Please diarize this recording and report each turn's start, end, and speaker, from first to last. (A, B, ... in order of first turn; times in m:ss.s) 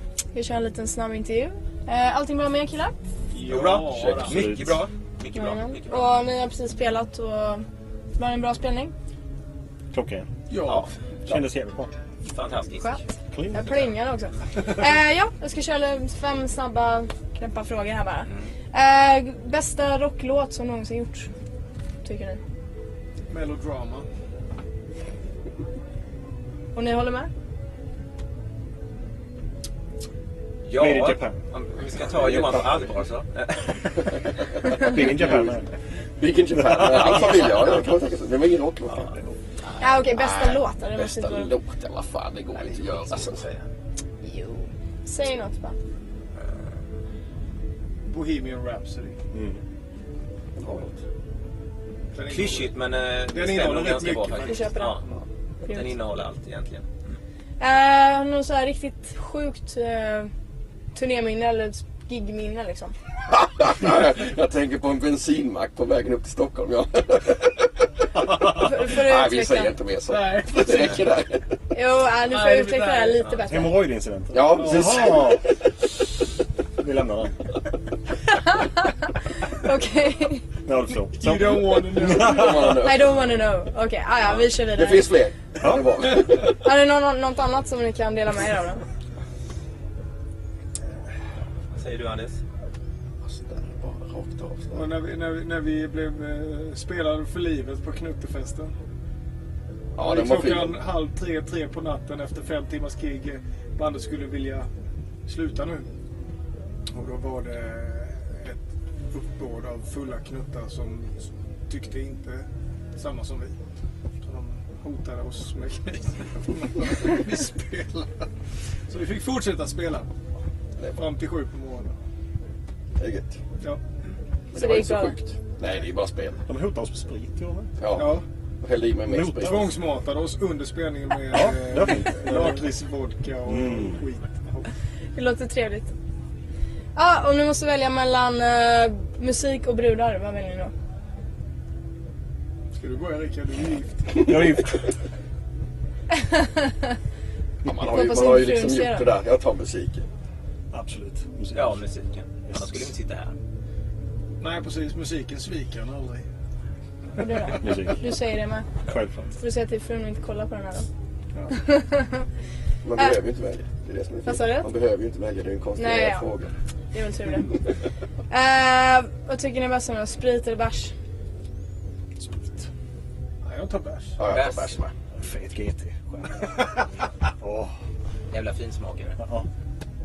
0:00.3-0:03.0 A
0:03.3-0:04.4 B
0:03.4-0:06.2 C
0:03.9-0:04.3 D
0:04.2-0:04.8 E
0:05.3-0:07.6 A
0:08.2-0:08.9 A
0:09.9-0:10.3 E
0:10.5-0:10.9 B
0:10.6-0:10.9 C
0:11.2-0:11.9 E
0:12.2-0:13.0 C
0:12.8-0:21.3 A
0:13.3-0:13.8 E
0:22.0-0:22.4 A
0:23.3-0:24.1 B
0:26.7-0:27.3 A
0:30.6-0:34.4 C
0:30.7-0:31.4 E
0:34.7-0:35.5 D
0:34.7-0:35.6 E
0:36.2-0:39.1 D
0:36.8-0:37.9 C
0:39.8-0:41.5 A
0:40.1-0:43.4 D
0:42.6-0:43.7 C
0:44.2-0:45.8 A
0:48.1-0:49.2 B
0:49.3-0:49.6 E
0:50.6-0:51.0 D
0:52.1-0:52.8 B
0:52.3-0:55.1 C
0:53.3-0:54.7 B
0:54.4-0:55.0 A
0:55.7-0:56.9 C
0:55.7-0:55.9 A
0:57.6-1:00.3 A
1:00.9-1:02.9 A
1:03.3-1:07.6 D
1:08.5-1:09.7 A
1:08.8-1:11.4 D
1:10.1-1:11.0 B
1:11.7-1:13.8 A
1:12.3-1:13.3 B
1:13.4-1:15.5 E
1:14.3-1:15.2 D
1:14.6-1:15.2 B
1:16.8-1:17.4 E
1:18.5-1:18.9 A
1:19.5-1:20.4 A
1:20.6-1:22.8 E
1:21.1-1:22.6 B
1:22.2-1:23.1 D
1:22.6-1:25.1 A
1:24.7-1:26.5 D
1:25.6-1:25.9 E
1:26.6-1:28.8 A
1:31.7-1:32.4 C
1:33.2-1:34.8 D
1:34.7-1:38.7 B
1:40.0-1:40.8 D
1:40.0-1:44.7 B
1:45.3-1:45.9 B
1:46.9-1:51.1 B
1:51.7-1:53.6 B
1:54.2-1:58.3 B
1:58.9-2:00.1 B
2:01.0-2:02.0 B
2:03.0-2:03.4 D
2:04.5-2:05.2 A
2:04.5-2:06.4 D
2:06.5-2:07.7 E
2:07.8-2:09.6 D
2:07.9-2:08.2 B
2:09.1-2:09.7 E
2:09.4-2:14.7 B
2:11.3-2:12.6 E
2:13.5-2:14.0 E
2:15.2-2:15.9 A
2:17.0-2:20.7 A
2:22.7-2:24.5 B
2:24.2-2:24.9 E
2:26.1-2:26.9 A
2:27.6-2:30.0 D
2:27.8-2:29.1 A
2:30.7-2:31.7 E
2:31.5-2:33.4 C
2:32.5-2:32.8 E
2:34.4-2:36.3 B
2:37.2-2:38.7 A
2:37.6-2:38.0 E
2:38.8-2:39.3 E
2:39.4-2:40.9 A
2:41.6-2:42.2 A
2:42.8-2:46.5 D
2:44.3-2:44.7 A
2:45.8-2:46.3 A
2:46.9-2:47.5 A
2:48.3-2:50.9 A
2:52.2-2:52.7 E
2:53.4-2:54.2 B
2:54.2-2:54.9 D
2:54.3-2:54.7 C
2:55.1-2:56.9 E
2:57.4-2:57.7 E
2:58.3-2:59.2 C
2:59.2-2:59.5 E